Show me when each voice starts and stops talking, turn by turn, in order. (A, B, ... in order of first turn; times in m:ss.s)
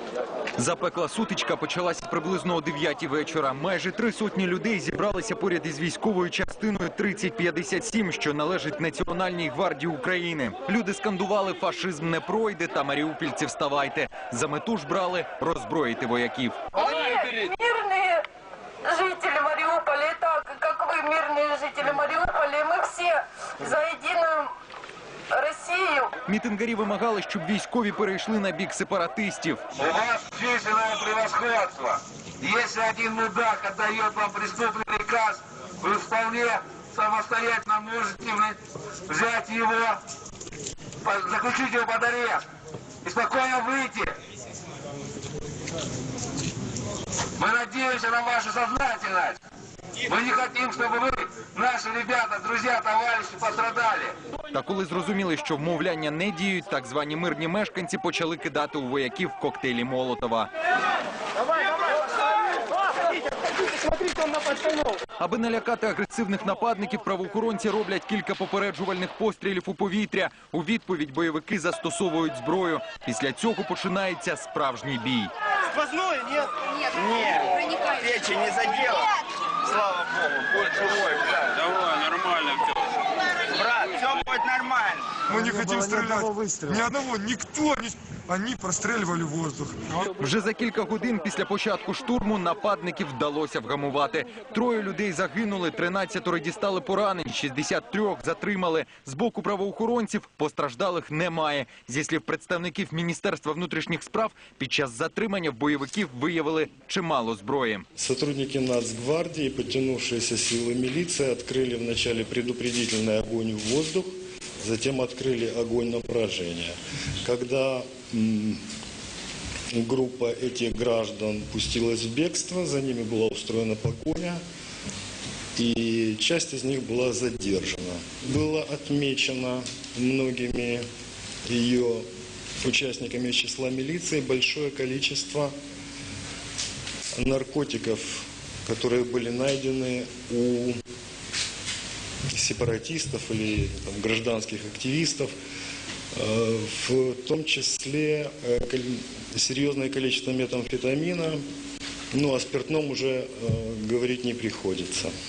0:00.6-0:16.8 A
0:16.8-0:18.2 B
0:18.8-0:24.5 B
0:25.3-0:26.2 B
0:26.3-0:29.6 A
0:29.8-0:40.0 C
0:41.0-0:42.4 C
0:43.0-0:44.2 C
0:47.4-0:49.4 C
0:50.0-0:54.2 C
0:54.5-1:00.5 A
1:05.2-1:15.3 A
1:15.7-1:19.1 D
1:19.6-1:21.5 D
1:23.5-1:25.2 D
1:25.2-1:30.0 E
1:30.1-1:47.8 A
1:48.0-1:58.6 F
1:59.7-2:04.4 F
2:05.6-2:10.8 F
2:11.5-2:12.0 F
2:12.6-2:15.5 F
2:17.2-2:20.8 F
2:22.3-2:25.3 F
2:26.1-2:31.4 F
2:32.1-2:35.1 F